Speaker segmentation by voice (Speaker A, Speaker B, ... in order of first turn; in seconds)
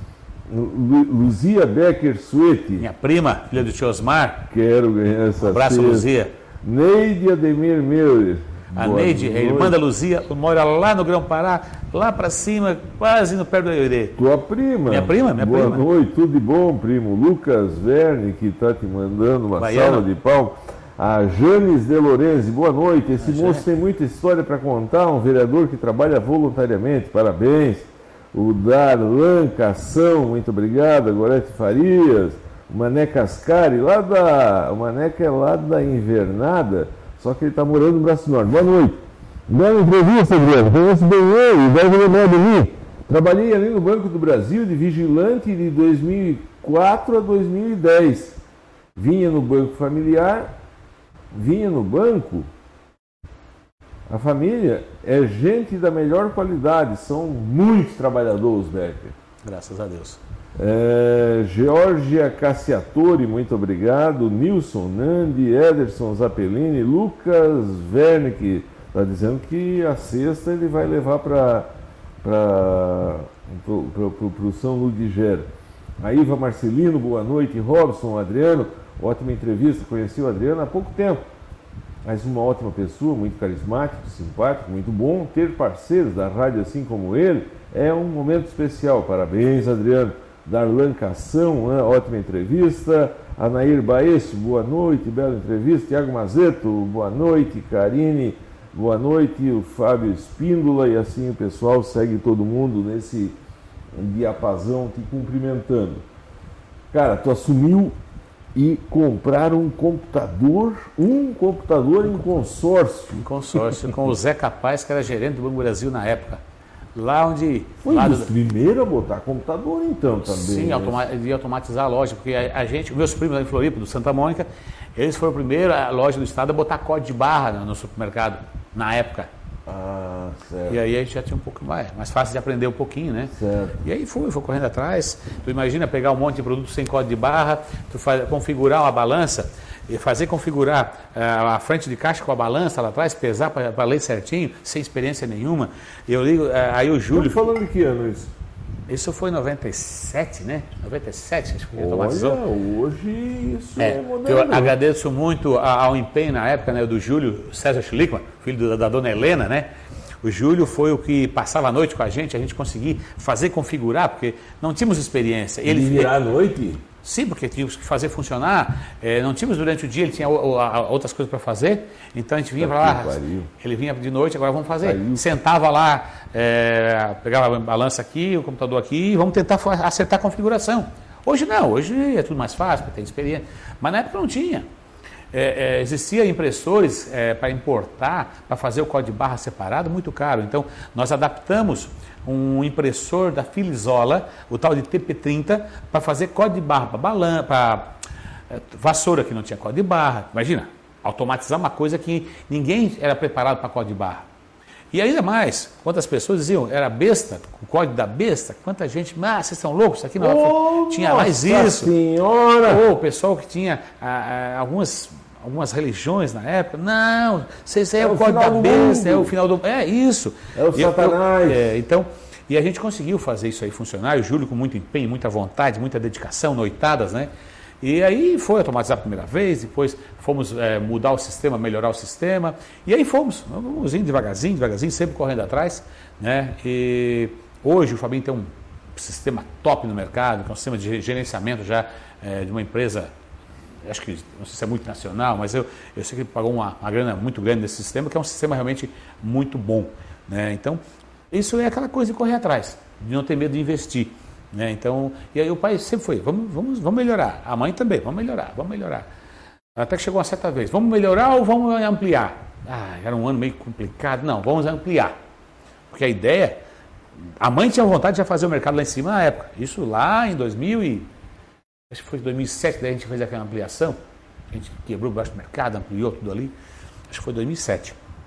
Speaker A: 0.5-2.9, 4.5-6.1, 6.6-9.8, 14.2-48.4, 49.0-50.5, 51.3-52.5, 54.1-59.1, 60.6-71.7, 72.2-75.5, 76.0-81.2, 82.0-103.4, 103.9-106.0, 106.9-108.0, 108.5-114.0, 117.8-121.0, 129.7-130.8, 133.3-133.8, 147.1-148.3, 151.8-154.8, 165.7-166.8, 172.6-173.5, 174.8-175.2, 210.2-212.8, 218.0-219.3, 220.5-221.8
Speaker B: 2.8-4.5, 5.4-6.3, 8.8-14.2, 14.9-15.8, 19.6-20.1, 23.2-23.6, 59.4-60.2, 113.2-116.4, 117.0-118.4, 120.2-129.3, 130.7-147.5, 148.9-152.4, 153.8-159.7, 160.2-166.1, 167.0-184.7, 185.3-197.9, 198.5-204.2, 204.9-211.9, 212.6-227.3, 227.8-243.1, 243.8-250.8, 251.3-259.1, 259.8-265.2, 265.9-266.6, 267.4-271.1, 271.9-274.0, 274.5-276.5, 277.1-278.0